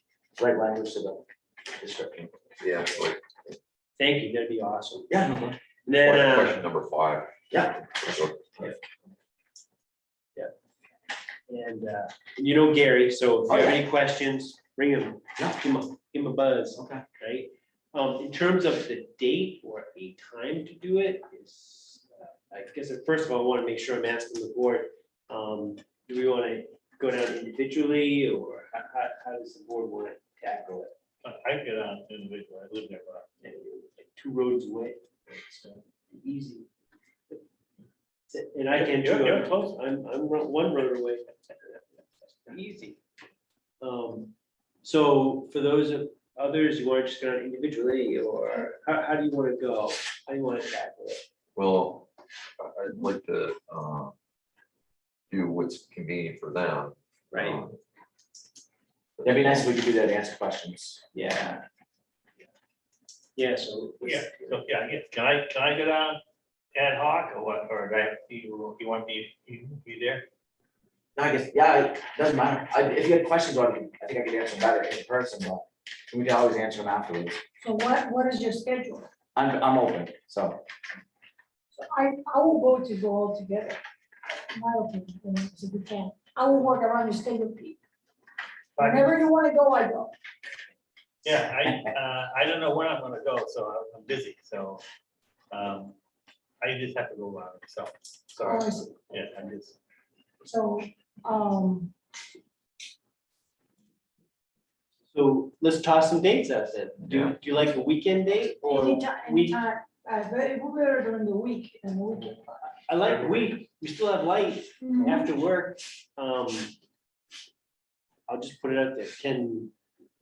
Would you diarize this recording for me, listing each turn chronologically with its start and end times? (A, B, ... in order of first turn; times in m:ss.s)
0:00.4-0:01.2 A
0:01.8-0:02.6 A
0:02.6-0:03.3 B
0:04.0-0:05.1 C
0:05.1-0:05.6 A
0:05.8-0:06.6 C
0:06.0-0:08.8 B
0:07.5-0:08.4 A
0:11.5-0:30.9 C
0:13.5-0:13.8 A
0:16.8-0:17.0 A
0:31.2-0:33.3 D
0:33.4-0:36.7 C
0:38.3-0:43.0 C
0:38.7-0:39.5 D
0:43.8-0:51.2 C
0:51.5-0:52.1 B
0:52.6-0:54.1 B
0:55.3-0:57.8 B
0:57.3-0:57.6 C
0:59.2-0:59.6 B
0:59.2-1:01.4 A
1:01.1-1:01.6 C
1:03.4-1:04.6 C
1:04.0-1:06.2 D
1:06.7-1:10.2 D
1:11.2-1:17.4 A
1:17.6-1:19.1 E
1:19.3-1:20.6 A
1:21.7-1:23.8 E
1:24.5-1:27.8 E
1:28.8-1:29.2 D
1:28.8-1:30.1 E
1:31.2-1:34.8 D
1:35.5-1:35.9 D
1:36.6-1:39.8 D
1:38.4-1:38.9 E
1:40.4-1:41.9 E
1:45.1-1:49.6 C
1:47.0-1:47.3 B
1:48.6-1:52.4 E
1:52.8-1:56.7 C
1:54.8-1:55.3 E
1:58.3-1:59.7 C